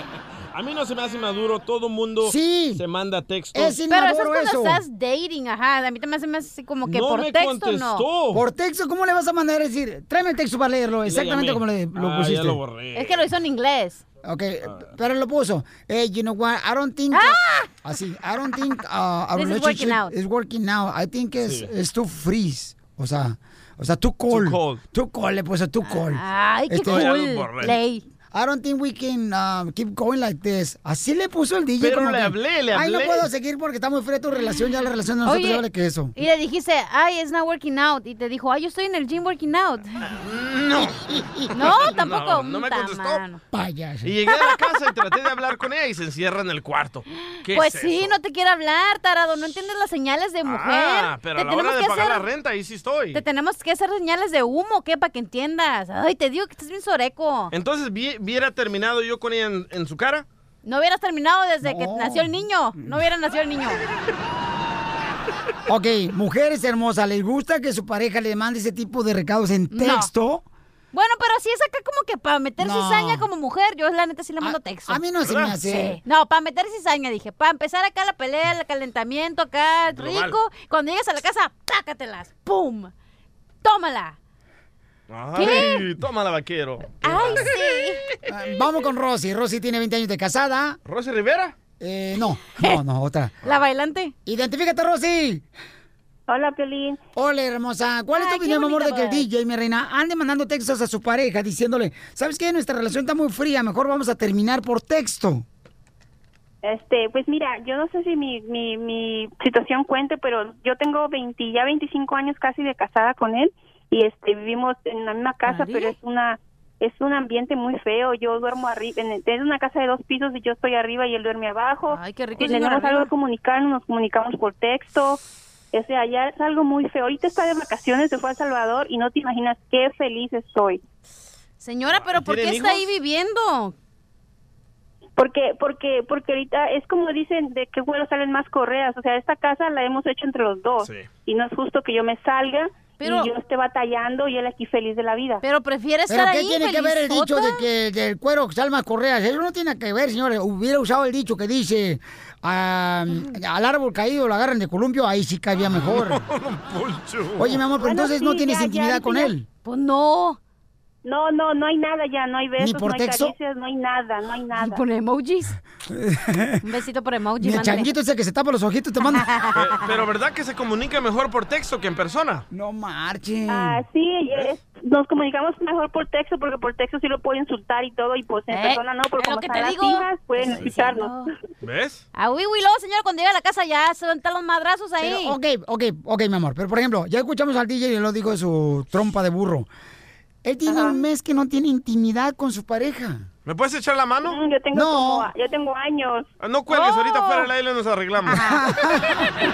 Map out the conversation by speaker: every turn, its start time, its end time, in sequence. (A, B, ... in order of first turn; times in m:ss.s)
0:00.5-0:03.8 A
0:02.2-0:02.8 B
0:03.5-0:04.8 B
0:03.9-0:08.1 C
0:06.8-0:08.4 A
0:08.3-0:12.6 B
0:11.0-0:13.2 A
0:12.9-0:14.0 C
0:14.2-0:27.1 B
0:14.6-0:14.9 A
0:17.1-0:17.7 C
0:19.3-0:20.1 C
0:21.4-0:21.7 A
0:24.3-0:24.8 A
0:25.8-0:28.0 C
0:26.8-0:27.8 A
0:28.3-0:36.1 B
0:31.8-0:33.3 A
0:35.2-0:40.0 C
0:40.0-0:41.2 A
0:41.1-0:41.5 B
0:41.5-0:43.4 C
0:41.7-0:43.2 A
0:43.5-0:44.1 B
0:44.0-0:48.1 A
0:44.3-0:44.7 C
0:47.2-0:52.3 C
0:50.4-0:53.2 A
0:53.1-0:57.5 C
0:57.5-1:00.2 A
1:00.6-1:03.8 C
1:01.6-1:02.4 B
1:05.7-1:10.4 B
1:09.7-1:10.1 C
1:10.9-1:15.1 C
1:12.6-1:13.3 B
1:14.4-1:16.0 B
1:15.2-1:15.5 A
1:15.6-1:22.9 C
1:19.9-1:20.4 A
1:23.6-1:24.2 C
1:25.1-1:27.6 A
1:25.3-1:25.9 C
1:27.0-1:28.0 C
1:28.3-1:30.8 B
1:30.8-1:31.6 A
1:31.8-1:33.4 B
1:33.4-1:34.1 C
1:34.2-1:35.4 B
1:36.3-1:37.0 D
1:37.1-1:45.4 B
1:38.1-1:39.2 C
1:46.6-2:05.2 D
1:55.4-1:56.0 C
2:01.9-2:03.1 C
2:05.7-2:10.8 D
2:11.6-2:13.7 C
2:11.9-2:12.9 A
2:15.2-2:25.4 D
2:20.8-2:21.1 A
2:23.0-2:23.3 C
2:25.4-2:27.7 C
2:26.1-2:36.2 B
2:35.7-2:37.6 A
2:37.4-2:39.4 B
2:37.7-2:39.3 D
2:39.6-2:40.4 C
2:41.0-2:44.8 D
2:42.6-2:43.3 B
2:44.6-2:45.6 C
2:45.9-2:46.7 B
2:46.6-2:47.9 C
2:47.4-2:49.3 B
2:49.0-2:50.0 C
2:49.5-2:52.4 A
2:52.5-2:53.8 B
2:53.5-3:01.2 D
2:58.5-3:01.3 C
3:01.6-3:02.0 A
3:02.1-3:05.4 C
3:05.0-3:09.7 B
3:10.4-3:13.2 B
3:10.6-3:11.0 D
3:13.4-3:14.4 A
3:14.2-3:16.3 D
3:14.7-3:15.3 B
3:16.4-3:18.4 A
3:16.7-3:17.5 C
3:18.2-3:18.6 C
3:18.3-3:19.2 B